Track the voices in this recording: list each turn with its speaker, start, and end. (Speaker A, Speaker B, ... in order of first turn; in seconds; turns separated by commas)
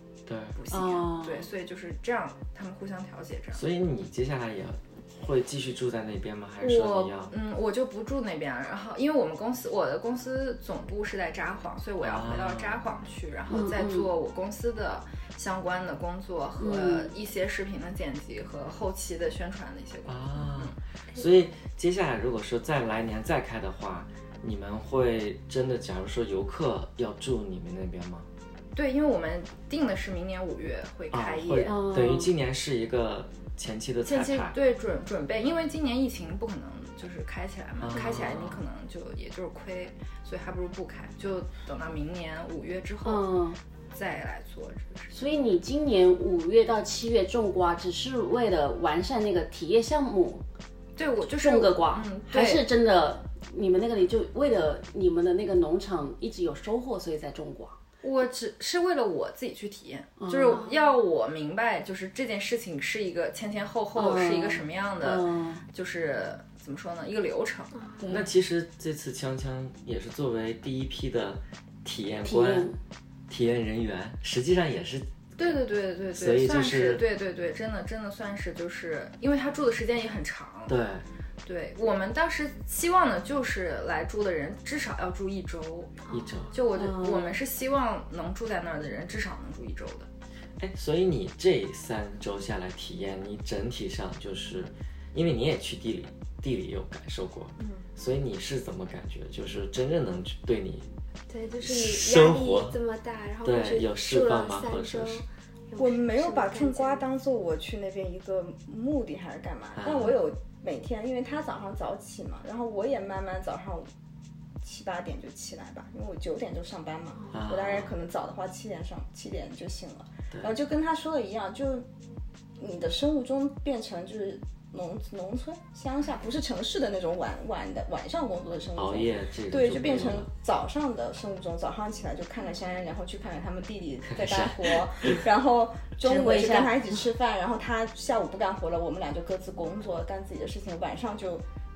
Speaker A: 0.3-0.5, Speaker B: 0.5-3.6, Speaker C: 0.7-1.5, Speaker A: 3.5-7.3, Speaker B: 6.6-20.7, Speaker A: 12.0-12.8, Speaker C: 13.5-14.1, Speaker C: 16.6-17.1, Speaker A: 20.1-28.3, Speaker B: 28.7-31.7, Speaker A: 31.1-34.5, Speaker C: 31.6-32.3, Speaker B: 34.0-43.3, Speaker A: 37.8-38.6, Speaker C: 43.0-43.6, Speaker B: 43.9-45.2, Speaker C: 45.1-50.4, Speaker B: 51.0-52.6, Speaker C: 51.4-57.8, Speaker B: 58.0-67.8, Speaker C: 60.2-60.6, Speaker D: 60.5-60.8, Speaker C: 63.9-65.6, Speaker C: 68.0-68.3, Speaker A: 68.1-72.7, Speaker C: 72.2-72.8, Speaker A: 73.3-75.6, Speaker B: 75.4-80.7, Speaker A: 76.1-77.0, Speaker A: 80.7-81.0, Speaker B: 81.4-86.0, Speaker D: 86.0-86.6, Speaker A: 86.1-86.6, Speaker B: 86.5-90.1, Speaker C: 86.7-87.4, Speaker A: 90.6-100.9, Speaker E: 97.6-97.8, Speaker D: 101.3-107.0, Speaker A: 101.6-102.8, Speaker A: 103.4-105.2, Speaker E: 105.8-113.9, Speaker A: 109.8-110.2, Speaker E: 114.6-121.9, Speaker A: 117.3-117.9, Speaker A: 120.3-120.6, Speaker E: 122.6-141.4, Speaker A: 128.7-130.3, Speaker A: 134.1-135.2, Speaker C: 136.0-137.0